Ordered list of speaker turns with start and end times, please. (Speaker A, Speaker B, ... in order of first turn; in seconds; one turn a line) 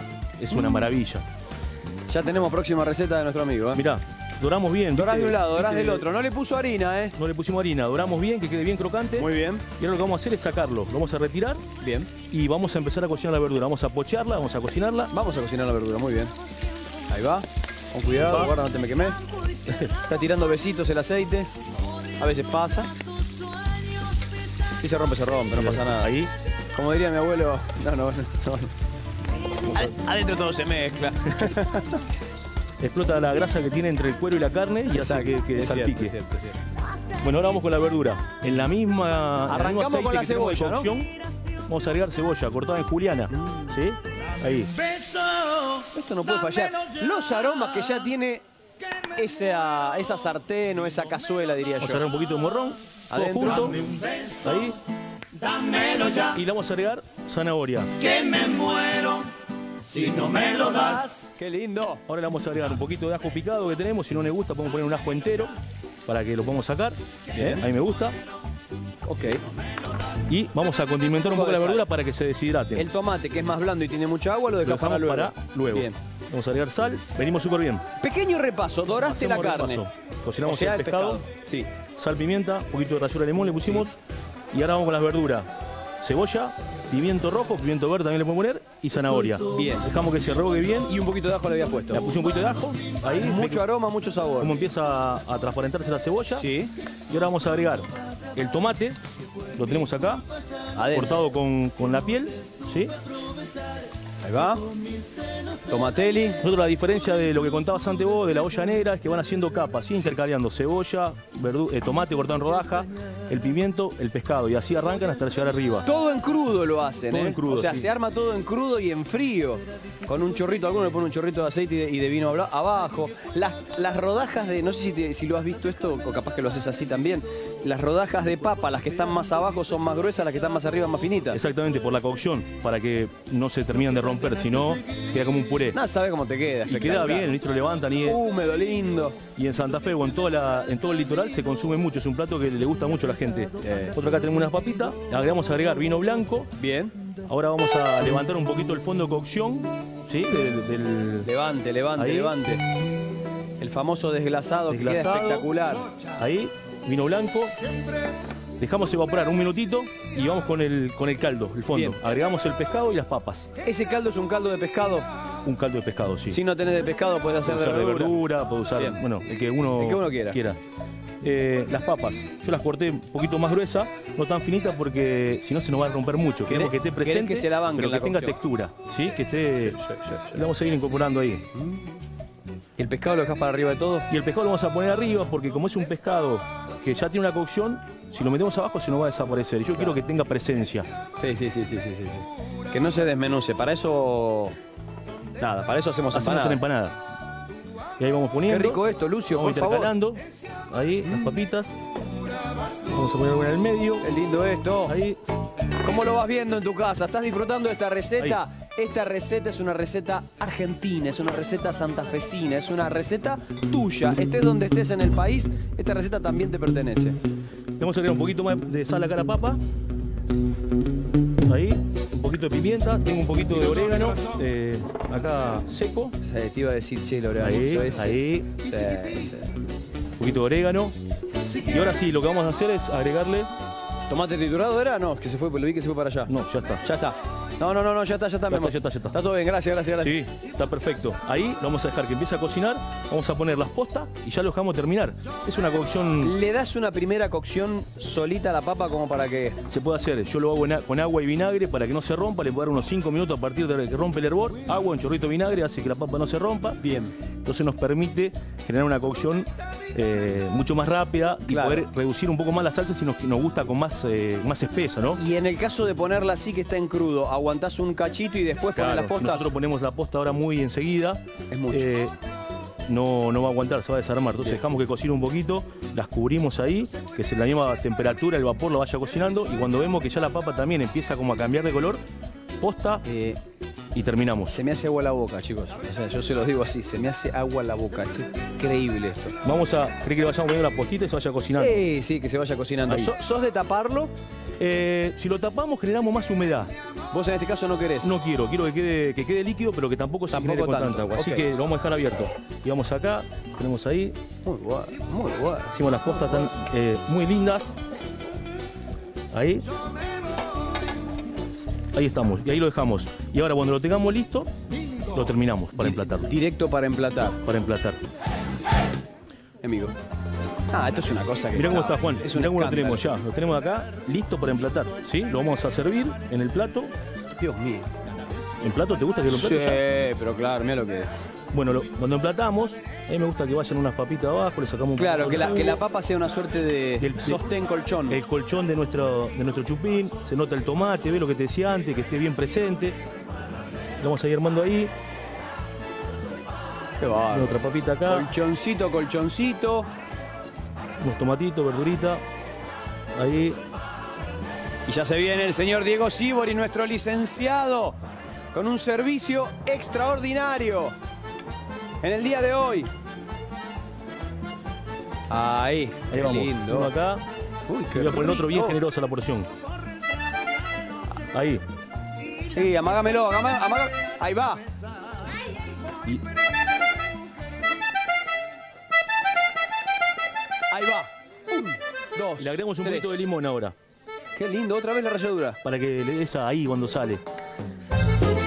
Speaker A: 0.4-1.2
Speaker B: 2.1-3.8
Speaker A: 3.7-6.0
Speaker B: 4.9-7.2
Speaker A: 7.2-11.6
Speaker B: 9.2-9.6
Speaker B: 11.8-12.1
Speaker A: 12.3-15.1
Speaker B: 15.1-16.3
Speaker B: 17.1-19.2
Speaker A: 18.3-18.5
Speaker B: 19.9-21.5
Speaker B: 22.2-22.9
Speaker B: 24.8-26.2
Speaker A: 25.5-26.3
Speaker B: 26.7-28.7
Speaker B: 29.7-32.0
Speaker A: 32.8-36.1
Speaker B: 34.9-36.6
Speaker A: 37.2-41.1
Speaker B: 39.5-40.9
Speaker A: 41.7-44.7
Speaker B: 43.3-43.7
Speaker B: 45.7-48.4
Speaker B: 49.1-52.0
Speaker A: 51.8-54.8
Speaker B: 53.1-54.0
Speaker A: 56.1-58.1
Speaker B: 58.1-59.3
Speaker B: 59.8-62.0
Speaker A: 62.1-65.5
Speaker A: 66.0-68.2
Speaker B: 67.3-67.7
Speaker B: 69.0-69.4
Speaker A: 70.3-72.9
Speaker B: 71.2-71.8
Speaker B: 72.7-76.0
Speaker A: 74.6-77.8
Speaker B: 78.0-79.8
Speaker A: 78.9-81.2
Speaker B: 80.4-81.7
Speaker A: 82.0-84.0
Speaker A: 84.5-85.5
Speaker A: 86.0-90.9
Speaker B: 89.5-89.9
Speaker B: 90.8-92.0
Speaker A: 91.9-93.6
Speaker B: 93.1-94.6
Speaker A: 94.4-96.5
Speaker B: 96.3-96.7
Speaker A: 97.1-99.0
Speaker A: 99.5-100.2
Speaker B: 100.8-101.2
Speaker A: 100.9-102.9
Speaker B: 104.2-104.6
Speaker B: 105.7-106.4
Speaker A: 106.4-115.9
Speaker B: 115.8-131.4
Speaker A: 117.1-117.9
Speaker A: 131.3-135.8
Speaker B: 135.7-137.3
Speaker A: 136.7-138.2
Speaker B: 138.0-139.2
Speaker A: 139.4-146.5
Speaker B: 143.6-143.9
Speaker B: 146.6-146.9
Speaker A: 147.3-151.3
Speaker B: 151.2-152.6
Speaker A: 151.9-152.3
Speaker B: 153.6-155.9
Speaker A: 154.7-155.5
Speaker A: 156.2-157.5
Speaker A: 158.6-163.5
Speaker B: 161.7-162.0
Speaker B: 163.6-165.1
Speaker A: 165.4-166.4
Speaker B: 166.3-168.2
Speaker A: 167.4-170.6
Speaker B: 168.8-169.0
Speaker B: 169.7-170.4
Speaker A: 171.2-179.8
Speaker B: 176.5-178.4
Speaker B: 179.7-180.4
Speaker A: 180.3-181.4
Speaker B: 181.5-181.9
Speaker B: 182.8-184.1
Speaker A: 184.1-190.9
Speaker B: 191.2-194.5
Speaker B: 195.4-196.6
Speaker A: 196.1-197.0
Speaker A: 198.0-198.8
Speaker B: 198.5-199.9
Speaker A: 199.3-201.7
Speaker A: 202.9-204.1
Speaker B: 204.0-204.9
Speaker A: 204.9-205.2
Speaker B: 205.8-217.2
Speaker A: 217.8-219.6
Speaker A: 221.4-226.1
Speaker B: 226.2-229.6
Speaker A: 227.4-228.5
Speaker A: 230.2-230.9
Speaker A: 231.7-233.5
Speaker B: 234.1-236.3
Speaker A: 236.3-236.8
Speaker B: 236.8-240.2
Speaker A: 238.5-239.2
Speaker A: 240.0-246.3
Speaker B: 246.2-249.6
Speaker A: 249.7-256.8
Speaker B: 256.8-257.1
Speaker A: 257.4-265.2
Speaker B: 261.5-261.9
Speaker B: 265.2-269.5
Speaker A: 268.8-272.1
Speaker B: 271.5-271.9
Speaker A: 272.9-282.0
Speaker A: 282.6-283.0
Speaker B: 283.0-283.4
Speaker A: 283.9-284.6
Speaker B: 284.5-289.4
Speaker A: 289.4-291.8
Speaker B: 291.6-294.1
Speaker A: 292.9-293.1
Speaker A: 294.6-296.7
Speaker B: 297.1-298.1
Speaker A: 298.0-304.1
Speaker B: 300.3-301.5
Speaker B: 304.4-305.9
Speaker A: 305.7-307.7
Speaker A: 309.3-309.7
Speaker A: 311.9-314.5
Speaker A: 315.1-316.3
Speaker B: 315.8-317.4
Speaker A: 317.4-318.0
Speaker B: 319.6-319.9
Speaker B: 320.7-323.1
Speaker A: 321.5-326.9
Speaker B: 327.4-327.9
Speaker A: 328.6-329.8
Speaker B: 329.3-331.1
Speaker A: 331.5-335.8
Speaker B: 335.0-338.2
Speaker A: 337.0-337.5
Speaker A: 338.1-343.0
Speaker A: 344.0-344.9
Speaker B: 347.0-349.9
Speaker A: 347.3-348.3
Speaker A: 351.0-352.2
Speaker A: 353.2-353.6
Speaker B: 354.9-358.0
Speaker B: 358.5-360.9
Speaker B: 362.0-362.9
Speaker B: 365.3-366.9
Speaker A: 366.1-367.2
Speaker B: 367.7-368.8
Speaker A: 367.9-369.5
Speaker A: 371.3-371.6
Speaker B: 372.5-374.6
Speaker B: 380.7-383.2
Speaker A: 382.4-383.7
Speaker B: 384.4-385.6
Speaker A: 385.6-387.2